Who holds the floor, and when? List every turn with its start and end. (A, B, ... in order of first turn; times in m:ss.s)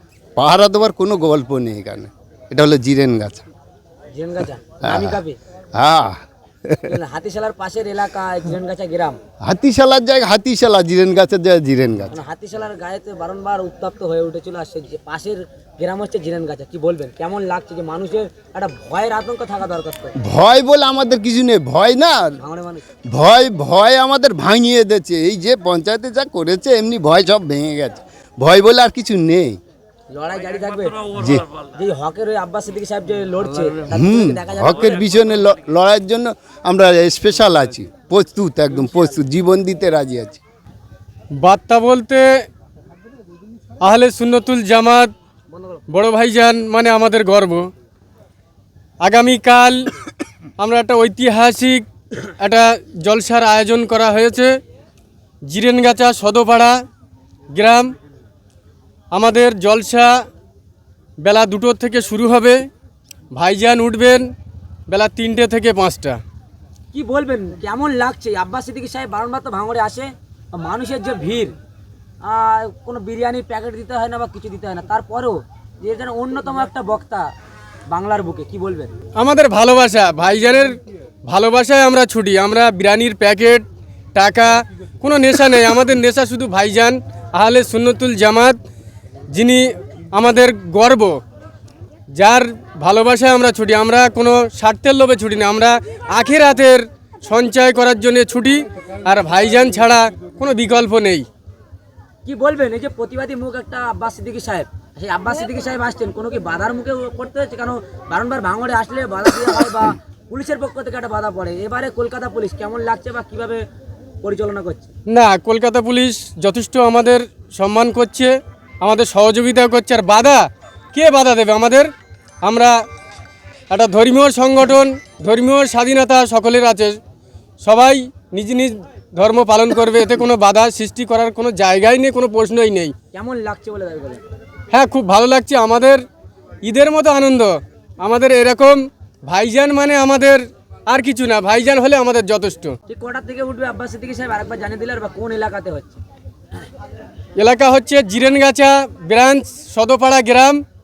0:00.4-0:03.4 A
0:04.1-0:05.4 B
0:04.8-0:05.2 A
0:05.8-0:07.0 A
0:06.9-0:09.2 B
0:09.4-0:12.2 A
0:12.1-0:20.2 B
0:20.2-0:22.4 A
0:22.4-0:22.8 B
0:23.1-0:29.6 A
0:30.1-0:31.1 B
0:31.2-0:31.4 A
0:31.7-0:34.9 B
0:33.9-0:40.4 A
0:41.3-0:42.4 C
0:43.8-0:45.1 C
0:45.9-0:47.7 C
0:49.0-0:49.9 C
0:50.6-0:54.6 C
0:55.4-0:56.8 C
0:57.5-0:57.9 C
0:59.1-1:00.2 C
1:01.2-1:02.6 C
1:03.3-1:04.3 C
1:04.9-1:06.2 C
1:06.9-1:11.5 B
1:12.2-1:17.3 B
1:17.9-1:18.9 B
1:19.2-1:28.6 C
1:29.3-1:31.2 C
1:32.1-1:41.3 C
1:42.2-1:53.6 B
1:54.2-1:54.9 B
1:55.1-2:01.9 C
2:02.4-2:02.8 C
2:03.7-2:07.0 C
2:07.6-2:12.9 C
2:13.1-2:14.2 B
2:14.7-2:16.0 C
2:16.6-2:22.8 C
2:22.9-2:26.0 B
2:27.4-2:30.6 C